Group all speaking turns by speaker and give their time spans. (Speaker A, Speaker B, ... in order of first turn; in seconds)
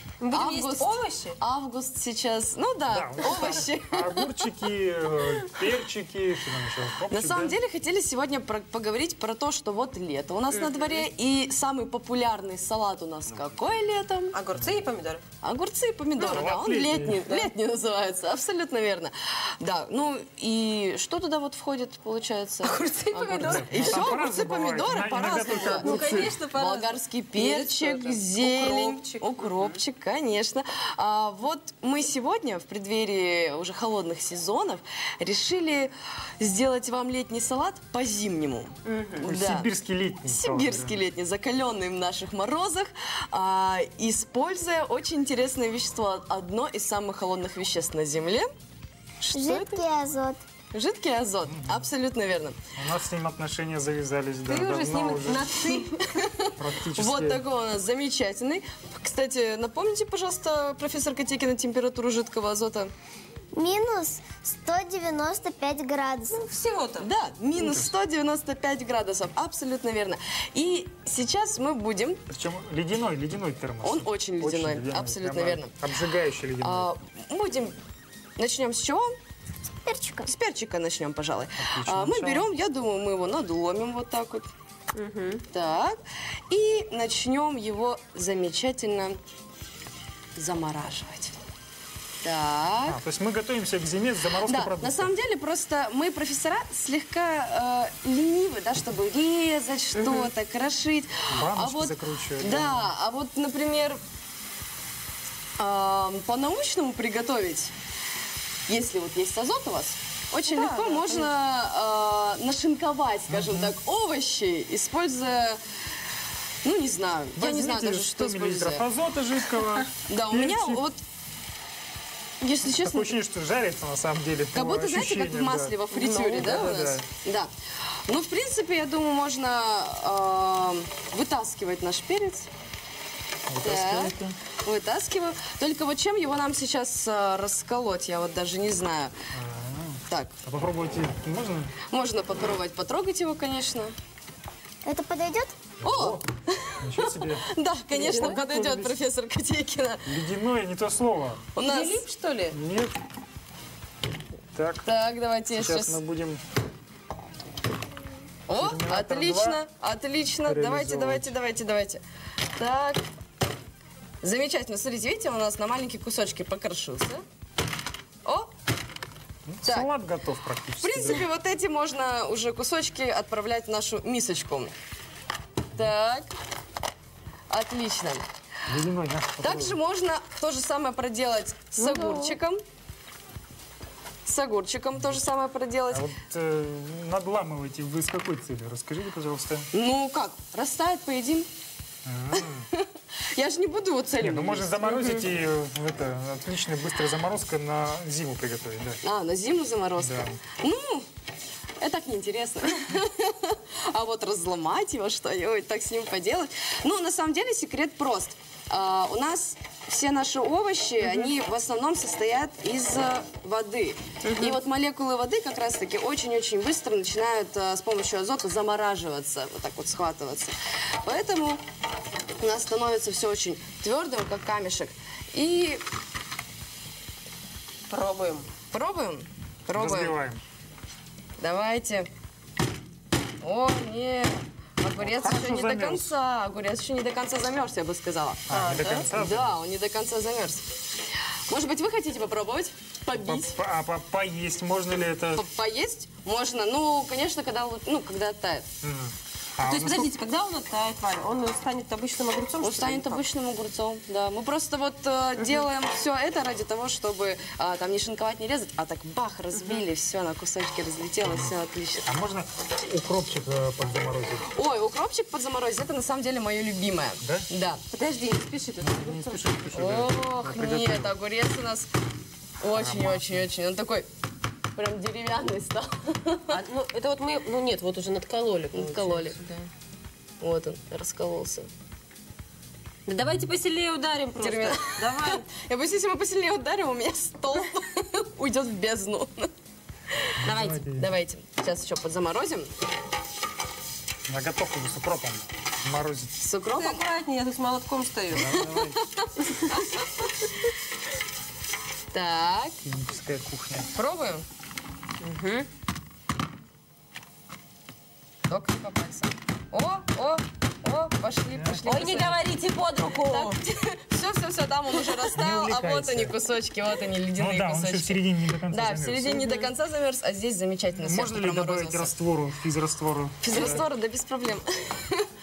Speaker A: 0.2-1.4, 10.5-11.0, 14.3-15.2, 16.2-16.5, 17.2-17.5, 22.6-24.2, 25.4-29.8, 38.8-39.3, 54.5-56.0, 66.3-67.1, 84.9-85.4, 99.9-100.3, 110.4-111.3, 125.9-126.8, 147.9-148.4, 151.6-152.5, 181.8-182.4, 214.2-214.6, 227.9-228.5, 238.5-239.1, 249.6-253.2, 267.9-269.6, 276.5-279.4, 283.1-285.4, 296.7-298.6, 305.2-305.7, 311.8-313.6, 319.4-319.7
Speaker B: 0.3-4.4, 7.1-14.4, 15.4-39.7, 40.3-48.5, 49.2-49.8, 50.7-52.6, 55.7-62.9, 67.0-72.2, 73.8-75.7, 76.6-77.8, 78.4-79.1, 80.2-84.5, 85.5-86.0, 86.5-89.2, 90.4-91.3, 92.2-93.0, 94.3-104.0, 105.6-107.7, 108.7-115.6, 116.6-118.8, 120.1-121.0, 122.4-123.2, 124.5-127.5, 128.1-132.5, 133.6-139.1, 140.1-140.3, 141.9-143.9, 145.8-150.0, 151.5-152.1, 154.8-156.0, 158.5-162.0, 162.6-163.0, 164.2-167.2, 168.2-168.5, 169.6-169.9, 170.8-174.7, 175.8-176.3, 177.5-178.2, 179.4-182.6, 184.2-186.1, 189.7-191.5, 192.3-195.3, 199.0-201.1, 201.8-221.6, 222.4-225.8, 228.7-230.2, 231.4-232.1, 233.4-238.4, 239.1-240.6, 241.5-243.6, 245.3-248.7, 252.6-262.1, 264.5-267.8, 269.7-271.9, 272.6-274.1, 274.8-276.6, 278.7-279.6, 280.4-281.7, 284.4-289.5, 290.3-292.7, 296.4-297.1, 298.6-300.6, 302.1-302.8, 303.9-304.4, 308.5-312.4, 313.0-322.1, 323.4-325.3
Speaker C: 2.9-7.6, 16.2-17.2, 23.4-26.3, 39.2-41.0, 51.5-51.9, 52.8-55.8, 56.5-57.4, 67.6-67.9, 72.3-76.9, 81.6-82.5, 92.9-95.1, 101.3-102.9, 113.3-113.7, 117.3-120.8, 122.7-125.8, 126.3-127.1, 133.5-134.4, 139.3-141.7, 145.8-146.2, 146.8-147.5, 148.1-149.0, 150.1-151.5, 152.5-153.0, 154.5-154.9, 155.5-156.4, 158.5-159.6, 160.4-161.3, 169.5-171.2, 178.7-179.8, 185.9-189.7, 192.0-192.7, 194.2-199.0, 200.0-200.4, 229.7-230.4, 235.0-236.1, 238.5-239.5, 243.1-245.4, 248.8-250.1, 261.2-261.5, 262.1-264.5, 267.2-267.5, 268.8-271.1, 272.7-273.4, 290.4-291.1, 294.3-296.3, 298.3-299.0, 302.8-303.9, 311.5-311.8, 315.3-316.4, 317.4-319.4, 320.9-323.9
Speaker D: 49.3-50.4, 63.5-66.5, 79.9-80.3, 144.8-145.6